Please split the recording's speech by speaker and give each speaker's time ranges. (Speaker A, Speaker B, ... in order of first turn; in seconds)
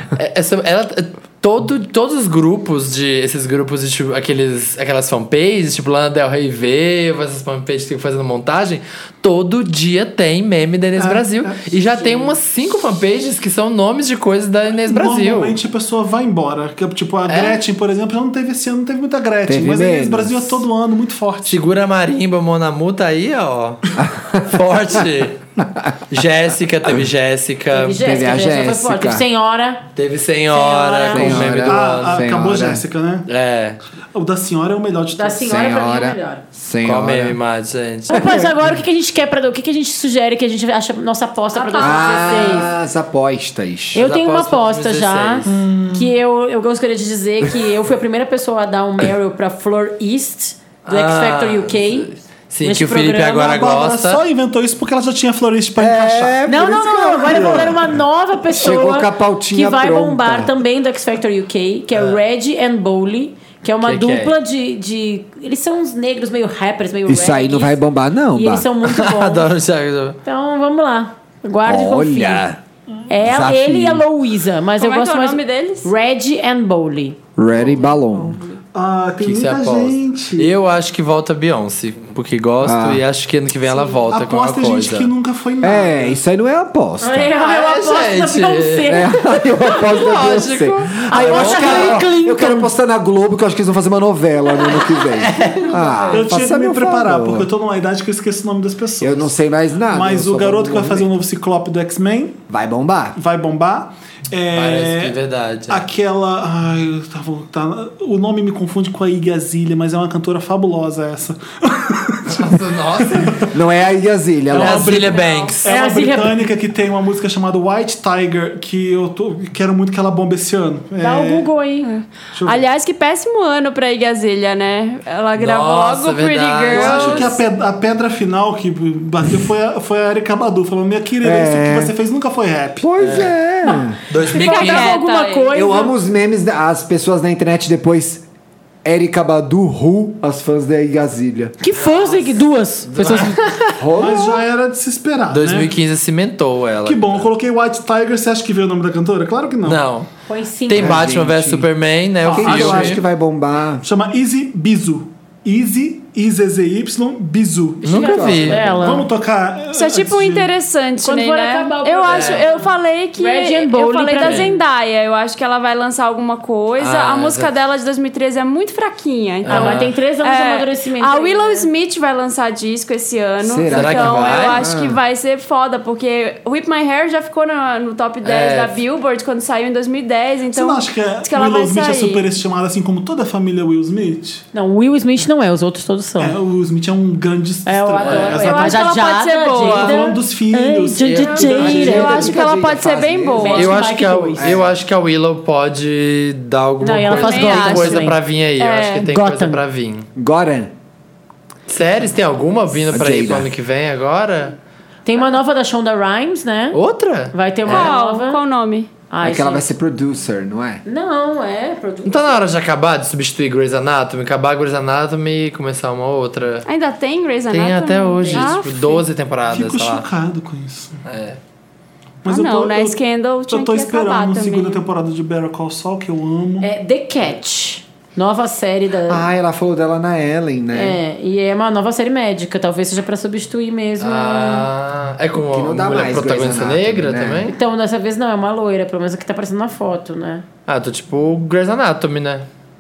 Speaker A: 0.1-15.6, 17.3-17.6, 21.5-23.8, 24.4-25.4, 26.1-28.0, 30.0-32.3, 33.3-33.8, 36.8-38.2, 44.0-45.5, 50.9-54.2, 61.9-62.2, 63.8-64.3, 68.8-70.2, 79.2-85.1, 87.4-89.1, 89.7-92.0, 94.6-96.0, 104.5-105.9, 112.3-113.4, 114.5-115.7, 125.4-127.3, 133.0-133.3, 134.1-135.0, 141.8-143.5, 145.3-147.2, 149.6-150.1, 150.7-153.0, 157.8-158.8, 162.1-162.4, 164.2-164.5, 166.8-167.5, 169.4-169.9, 173.7-174.6, 178.2-178.8, 188.1-188.3, 191.0-192.1, 193.5-200.1, 201.7-204.6, 206.7-207.9, 212.1-216.7, 217.5-220.1, 221.1-221.4, 234.0-237.6, 240.7-242.5
Speaker B: 11.0-11.8, 14.8-21.6, 31.2-33.3, 34.1-35.5, 45.5-46.1, 53.4-57.8, 78.7-80.5, 84.1-86.2, 96.1-99.3, 99.9-102.4, 103.2-105.2, 105.7-113.5, 114.5-121.5, 122.3-122.6, 126.7-132.9, 144.0-145.7, 146.8-149.8, 152.2-153.0, 153.8-158.2, 158.8-160.5, 180.5-184.4, 186.2-188.8, 189.7-191.9, 219.5-221.0, 222.2-223.0, 223.5-226.7
Speaker C: 12.1-12.3, 27.7-29.8, 30.5-31.4, 35.1-36.4, 38.1-42.7, 44.0-52.1, 52.6-53.5, 56.5-67.8, 68.3-69.5, 70.2-72.4, 73.1-77.2, 87.0-90.2, 91.1-92.7, 115.7-116.5, 121.0-121.9, 133.6-135.9, 141.6-143.8, 150.3-151.0, 157.9-159.1, 161.0-164.6, 169.5-171.7, 184.5-186.4, 187.7-192.3, 193.3-194.6, 196.8-198.2, 199.0-199.6, 205.1-206.8, 207.3-208.4, 209.1-209.7, 210.9-212.4, 218.2-218.5, 226.6-229.2, 230.7-234.7, 237.5-240.4
Speaker D: 19.5-20.5, 24.0-24.4, 25.6-25.9, 28.0-29.3, 31.1-32.8, 35.4-37.4, 38.1-38.6, 41.8-44.1, 55.8-57.9, 58.5-60.6, 67.1-68.7, 71.6-72.6, 73.2-74.0, 77.4-78.4, 82.6-83.0, 85.6-87.3, 88.8-97.5, 99.0-101.1, 102.5-103.2, 113.5-115.0, 131.2-131.9, 132.8-134.0, 135.5-138.2, 138.8-141.6, 143.8-144.4, 150.7-151.7, 152.3-153.8, 157.9-158.9, 173.4-175.0, 191.6-193.7, 194.4-194.7, 200.2-200.7, 202.9-203.5, 209.2-210.8, 229.1-231.0, 235.5-237.5
Speaker E: 41.5-42.7, 74.8-75.9, 114.9-115.5, 121.8-127.4, 134.3-135.6, 159.7-182.2, 188.0-190.1, 191.2-193.8, 197.1-199.1, 207.7-208.9, 216.7-219.0, 222.3-224.8